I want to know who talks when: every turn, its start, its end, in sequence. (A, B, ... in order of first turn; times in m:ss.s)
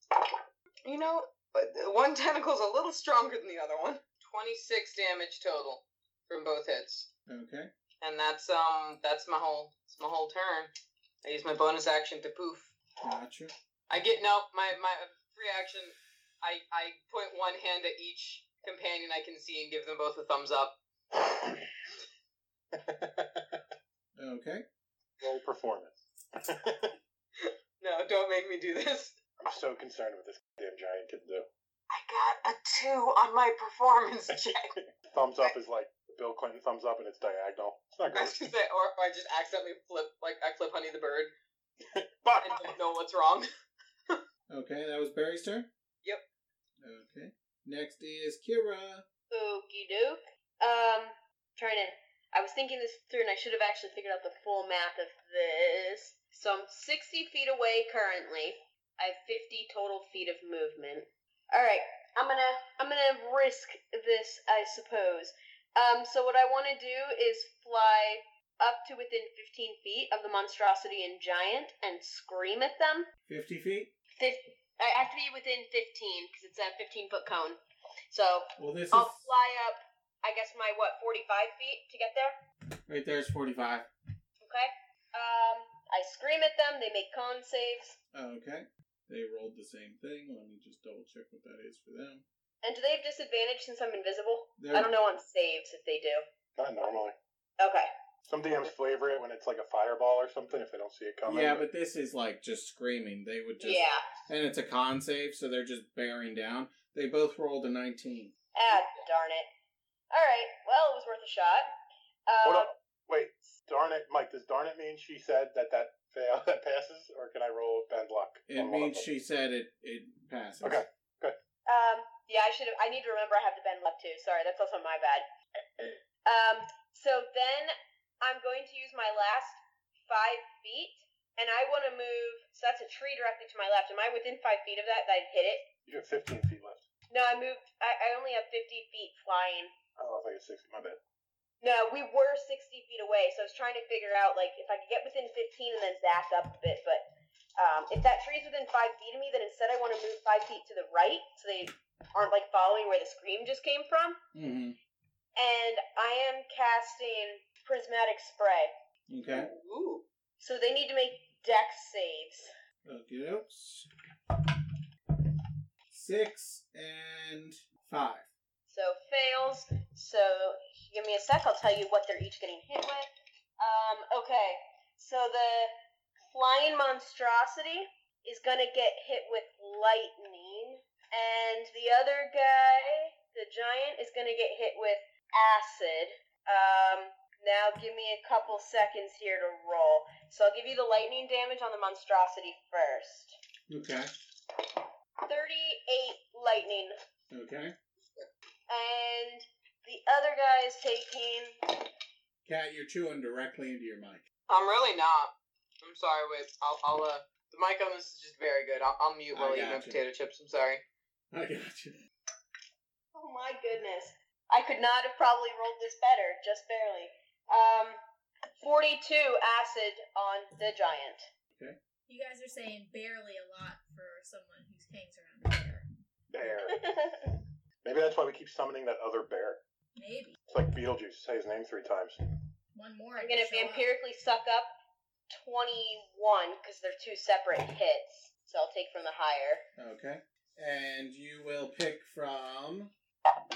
0:00.8-0:07.1 A
0:07.3-0:07.7 B
0:08.0-0:10.7 A
0:11.2-0:12.7 A
0:13.0-0:13.5 B
0:13.9-0:20.8 A
0:21.1-0:21.7 C
0:22.7-0:23.6 C
0:24.2-0:24.6 B
0:25.2-0:26.9 C
0:27.4-0:29.2 A
0:29.4-0:31.5 C
0:31.9-0:34.7 A
0:34.3-0:38.5 C
0:38.1-0:41.3 A
0:41.9-0:42.7 C
0:42.4-0:43.5 A
0:44.5-0:45.7 B
0:46.8-0:49.0 B
0:49.3-1:13.1 D
1:13.3-1:13.9 B
1:14.2-1:17.6 D
1:18.1-1:22.3 D
1:18.6-1:19.3 B
1:22.9-1:23.9 B
1:24.4-1:28.0 D
1:28.1-1:32.2 B
1:32.6-1:36.2 D
1:34.6-1:34.9 B
1:36.6-1:37.1 C
1:37.6-1:37.9 D
1:38.2-1:41.7 C
1:41.3-1:48.3 B
1:43.6-1:44.0 D
1:48.6-1:49.5 D
1:50.1-1:51.7 D
1:52.3-1:52.7 D
1:52.4-1:59.1 C
1:58.5-2:00.8 B
2:00.6-2:01.4 C
2:01.7-2:05.2 D
2:05.8-2:15.6 D
2:15.8-2:16.8 C
2:17.1-2:19.7 D
2:20.0-2:21.0 C
2:21.6-2:27.0 D
2:27.6-2:34.2 D
2:34.3-2:34.8 B
2:35.4-2:38.7 D
2:39.1-2:39.5 B
2:39.3-2:40.0 A
2:40.4-2:42.5 D
2:42.8-2:43.9 B
2:45.9-2:48.3 B
2:48.7-2:55.7 D
2:56.3-3:13.4 D
3:13.7-3:14.1 B
3:15.2-3:17.0 D
3:17.3-3:17.7 B
3:18.7-3:21.8 D
3:22.4-3:24.2 B
3:24.5-3:30.8 A
3:29.3-3:30.0 B
3:31.3-3:32.0 B
3:33.1-3:38.0 D
3:38.6-3:41.2 D
3:42.1-3:45.9 E
3:46.3-3:47.1 C
3:46.8-3:47.2 D
3:47.8-3:49.6 C
3:50.0-3:50.4 E
3:50.5-3:52.2 C
3:52.7-3:53.8 E
3:53.2-3:54.7 D
3:55.3-3:59.6 D
3:59.8-4:02.9 B